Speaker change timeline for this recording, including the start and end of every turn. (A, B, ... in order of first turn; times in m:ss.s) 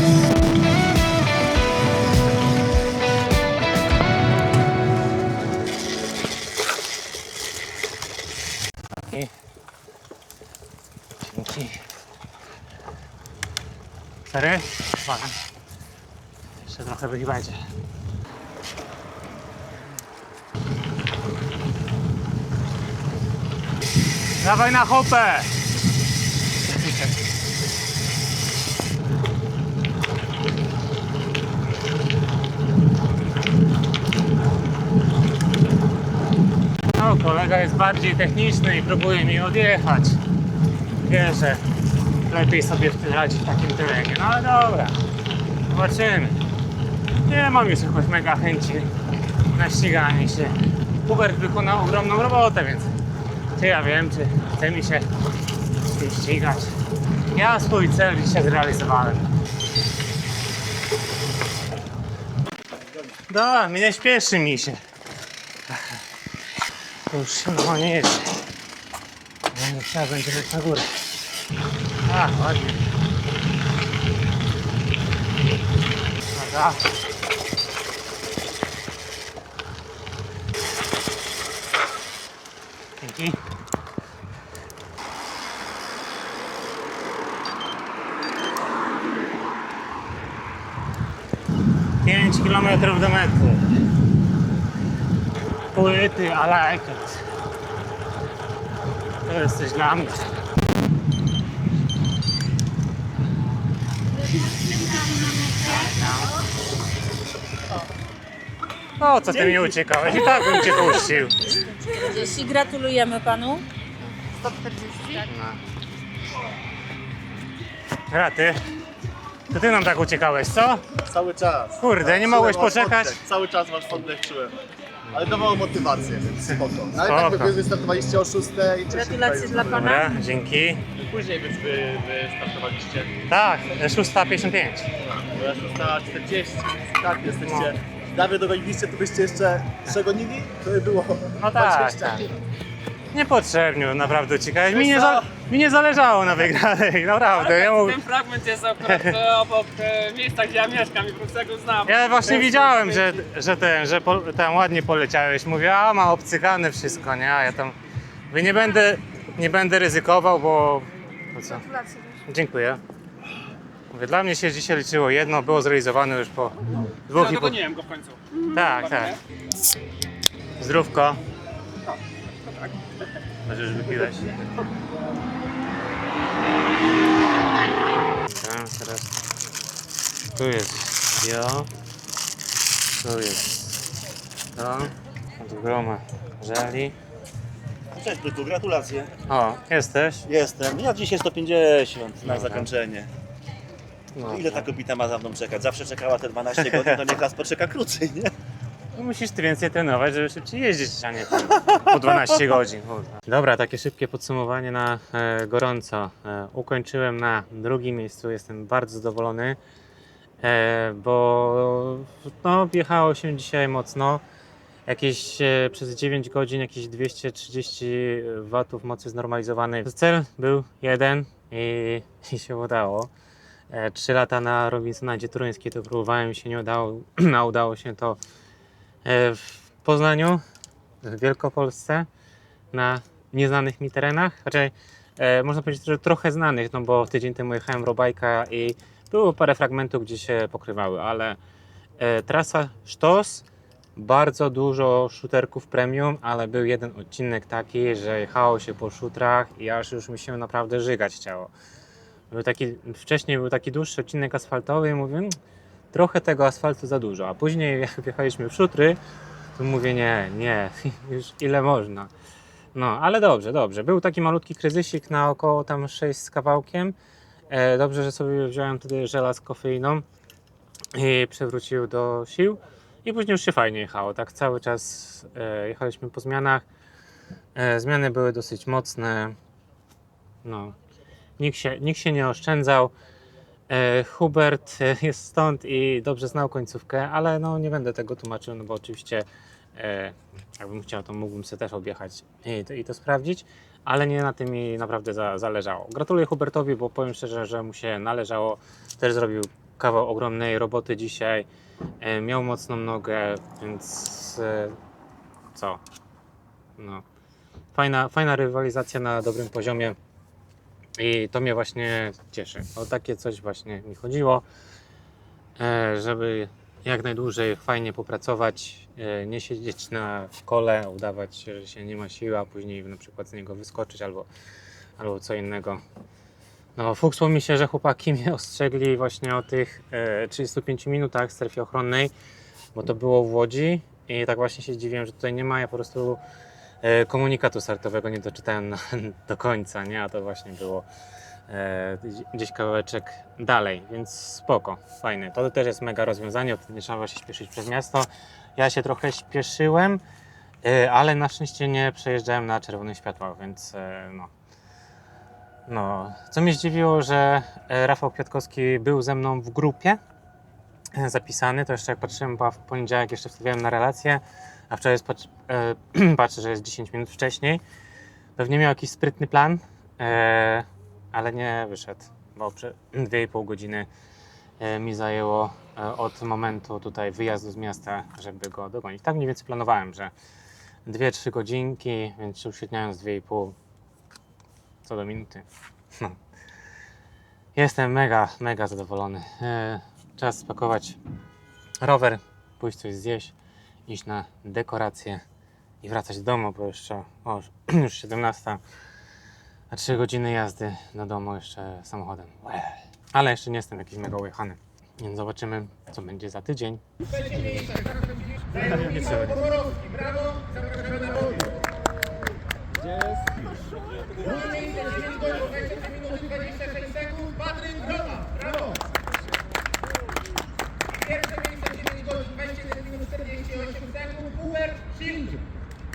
0:11.2-0:11.8 A
0:14.3-0:15.4 A
0:16.6-0:17.6 A
0:24.4-0:25.5 A
0:26.7-0:27.1 A
0:37.0-0:40.2 A
0:41.0-0:41.6 A
0:42.3-0:45.0 A
0:45.7-0:46.4 A
0:47.3-0:48.9 A
0:49.5-0:52.9 A
0:53.6-0:55.1 A
0:55.8-0:56.8 A
0:57.3-0:59.3 A
1:03.3-1:04.8 A
1:05.7-1:06.0 A
1:07.1-1:08.4 A
1:09.5-1:11.1 A
1:12.1-1:12.9 A
1:16.3-1:16.8 A
1:23.0-1:23.4 A
1:32.0-1:33.7 A
1:35.7-1:37.2 A
1:39.2-1:40.3 A
1:44.3-1:45.9 B
1:45.7-1:46.3 A
1:49.0-1:51.5 A
1:51.9-1:53.6 B
1:54.4-1:55.2 B
1:55.2-1:55.6 A
1:58.1-1:58.6 A
1:59.5-2:00.8 A
2:01.1-2:04.6 C
2:01.8-2:03.2 A
2:05.1-2:09.8 C
2:06.5-2:07.6 A
2:08.9-2:10.2 B
2:09.6-2:10.8 A
2:11.0-2:13.2 C
2:13.3-2:14.9 A
2:15.0-2:22.3 C
2:17.4-2:17.7 A
2:21.4-2:22.3 A
2:23.1-2:28.0 A
2:24.8-2:25.2 C
2:27.3-2:33.2 D
2:28.8-2:29.2 A
2:31.9-2:37.8 A
2:38.3-2:41.7 A
2:42.3-2:42.8 A
2:43.9-2:47.7 A
2:47.1-2:49.2 D
2:48.5-2:49.2 A
2:50.6-2:51.2 A
2:53.5-2:54.3 A
2:58.2-2:59.2 A
3:00.4-3:01.7 A
3:03.0-3:03.8 A
3:04.6-3:07.0 A
3:07.9-3:09.1 E
3:09.3-3:10.2 A
3:10.3-3:13.1 E
3:12.2-3:12.7 A
3:14.1-3:14.7 A
3:14.2-3:18.3 E
3:16.5-3:17.0 A
3:19.0-3:29.6 A
3:30.4-3:34.2 A
3:34.9-3:43.1 A
3:43.7-3:48.2 A
3:49.0-3:50.4 A
3:51.0-3:52.1 A
3:52.7-4:01.4 A
4:02.0-4:03.4 A
4:04.0-4:11.5 A
4:12.3-4:15.4 A
4:15.9-4:19.0 A
4:19.6-4:22.1 A
4:22.8-4:27.0 A
4:27.5-4:30.0 A
4:30.9-4:36.7 A
4:37.6-4:39.4 A
4:40.4-4:40.8 A
4:41.4-4:42.9 A
4:43.7-5:01.5 A
5:02.0-5:04.8 A
5:05.5-5:05.8 A
5:06.8-5:07.0 A
5:07.7-5:10.0 A
5:11.0-5:14.4 A
5:15.6-5:24.3 A
5:25.0-5:25.8 A
5:26.8-5:32.1 A
5:32.8-5:36.2 A
5:36.8-5:40.9 A
5:41.5-5:50.0 A
5:50.6-5:54.3 A
5:55.7-6:00.0 A
6:00.9-6:07.6 A
6:08.4-6:13.9 A
6:14.6-6:20.1 A
6:20.9-6:23.6 A
6:24.8-6:26.2 A
6:27.6-6:31.0 A
6:31.8-6:33.4 A
6:33.9-6:35.2 A
6:35.8-6:38.6 A
6:39.7-6:47.8 A
6:48.5-6:49.6 A